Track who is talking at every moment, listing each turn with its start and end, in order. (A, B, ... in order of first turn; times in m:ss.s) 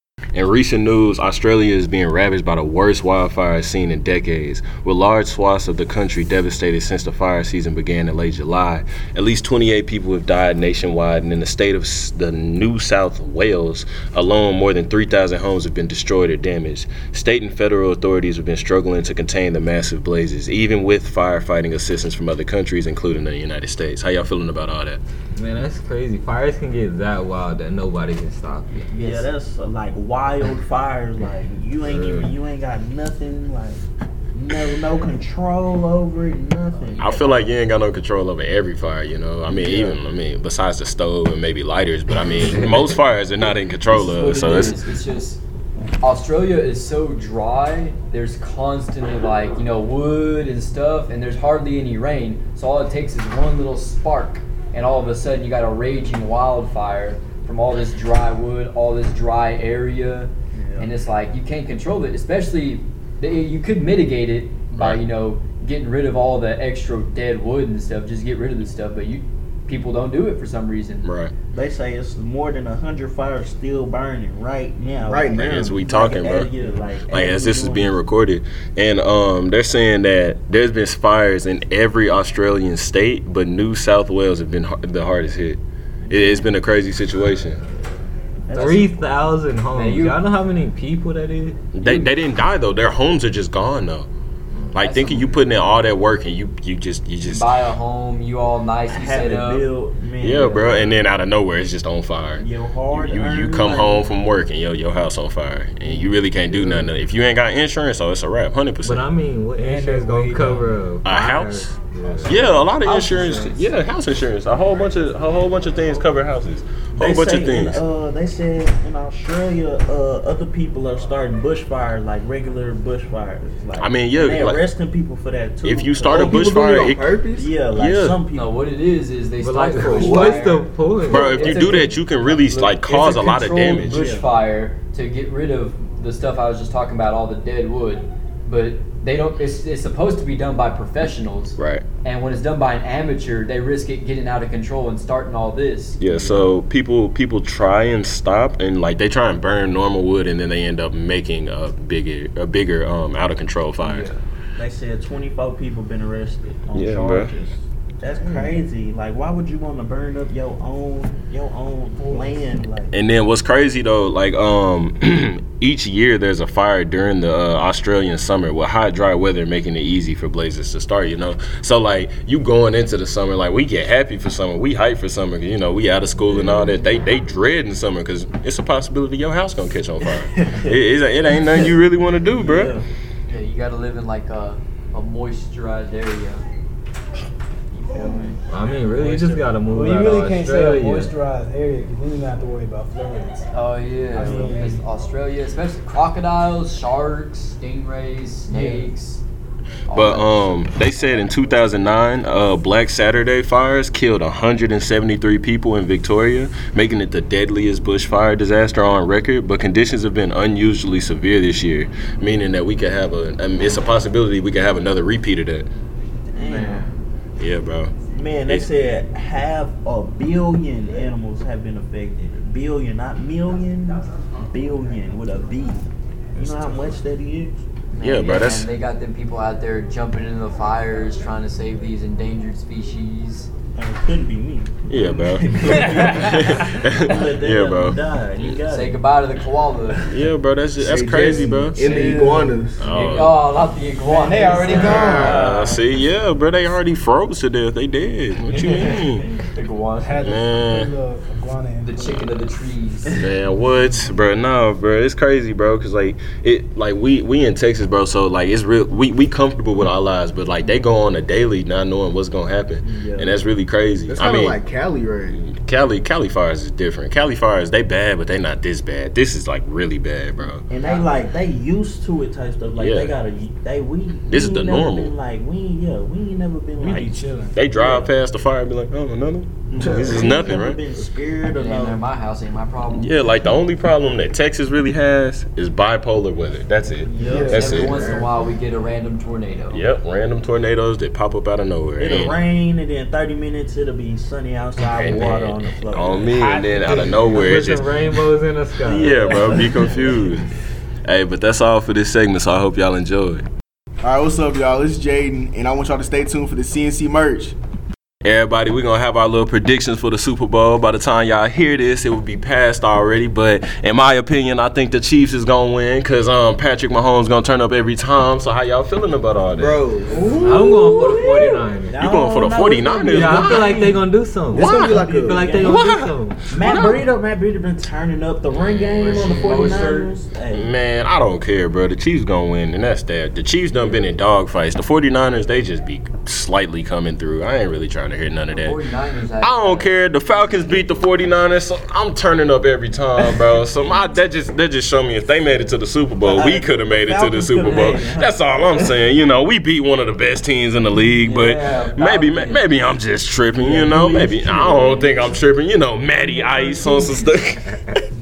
0:00.3-0:25.0 A
0:25.4-0:29.0 B
0:28.9-0:37.5 C
0:31.8-0:32.3 B
0:37.0-0:44.8 A
0:39.5-0:40.0 C
0:43.9-0:45.4 D
0:46.0-1:11.1 D
1:00.5-1:00.9 C
1:11.0-1:11.3 A
1:11.5-1:18.0 C
1:15.0-1:15.8 E
1:15.3-1:16.5 A
1:17.1-1:27.6 A
1:28.5-1:29.0 C
1:28.5-1:31.6 B
1:29.7-1:30.2 D
1:31.7-1:34.1 A
1:31.8-1:32.2 D
1:34.7-1:37.5 A
1:34.8-1:35.4 D
1:37.3-1:39.7 D
1:38.9-1:40.9 C
1:40.2-1:49.0 A
1:42.4-1:44.1 C
1:46.5-1:46.9 B
1:48.8-1:52.5 B
1:49.6-1:50.7 F
1:51.0-1:57.8 A
1:52.4-1:53.6 C
1:57.0-2:06.6 C
2:03.8-2:04.6 A
2:05.6-2:07.1 A
2:06.1-2:07.5 E
2:07.3-2:08.5 C
2:07.7-2:08.2 A
2:08.3-2:26.5 D
2:09.4-2:11.9 B
2:09.9-2:10.4 E
2:11.1-2:14.1 A
2:14.0-2:14.2 C
2:21.6-2:21.8 A
2:26.0-2:34.1 A
2:33.8-2:34.2 D
2:34.6-2:42.9 C
2:36.7-2:37.3 A
2:42.0-2:42.6 F
2:42.9-3:02.8 A
2:56.3-2:56.7 C
3:00.0-3:00.8 C
3:01.3-3:01.7 C
3:02.3-3:02.8 C
3:03.3-3:06.4 D
3:07.7-3:08.4 C
3:08.5-3:11.1 B
3:08.9-3:09.5 C
3:09.7-3:13.5 F
3:13.5-3:19.2 D
3:14.1-3:14.8 F
3:14.2-3:14.8 C
3:18.5-3:18.8 F
3:19.9-3:20.5 D
3:19.9-3:35.7 A
3:36.4-3:36.9 C
3:36.4-3:37.0 D
3:37.4-3:38.0 A
3:38.1-3:47.6 C
3:47.9-3:53.5 D
3:48.0-3:48.7 A
3:53.8-3:59.0 C
3:54.9-3:58.6 A
3:58.7-4:00.2 D
4:00.1-4:02.1 A
4:00.8-4:02.9 E
4:01.8-4:02.7 F
4:01.8-4:05.7 D
4:02.8-4:03.4 A
4:04.1-4:05.5 F
4:04.6-4:09.2 A
4:08.5-4:09.0 F
4:09.2-4:10.2 D
4:10.0-4:12.5 F
4:10.2-4:10.9 A
4:11.8-4:13.2 D
4:13.2-4:24.6 A
4:22.8-4:23.4 C
4:24.1-4:25.4 E
4:25.3-4:30.7 A
4:30.7-4:38.1 C
4:30.8-4:31.1 D
4:32.8-4:33.1 A
4:34.3-4:35.1 A
4:36.8-4:37.6 F
4:37.6-4:40.8 A
4:39.7-4:42.0 C
4:39.9-4:40.6 E
4:41.5-4:43.4 D
4:42.9-4:48.1 A
4:47.1-4:48.1 C
4:47.2-4:47.7 F
4:47.5-4:49.8 D
4:47.5-4:48.4 E
4:49.7-4:52.4 A
4:52.0-4:56.4 C
4:55.0-4:57.9 A
4:56.4-4:59.5 B
4:58.8-5:00.5 A
5:01.0-5:03.5 A
5:04.0-5:07.6 E
5:08.2-5:19.9 A
5:19.6-5:20.6 E
5:20.1-5:24.0 C
5:20.4-5:22.0 B
5:22.0-5:23.9 A
5:23.1-5:26.4 B
5:24.5-5:25.5 E
5:24.6-5:30.7 C
5:24.6-5:25.0 A
5:25.6-5:27.0 A
5:28.5-5:29.9 A
5:29.0-5:30.1 D
5:30.5-5:38.8 A
5:38.5-5:40.0 D
5:39.4-5:58.0 A
5:46.2-5:49.0 C
5:51.3-5:52.7 D
5:53.5-5:55.4 C
5:56.4-5:57.1 D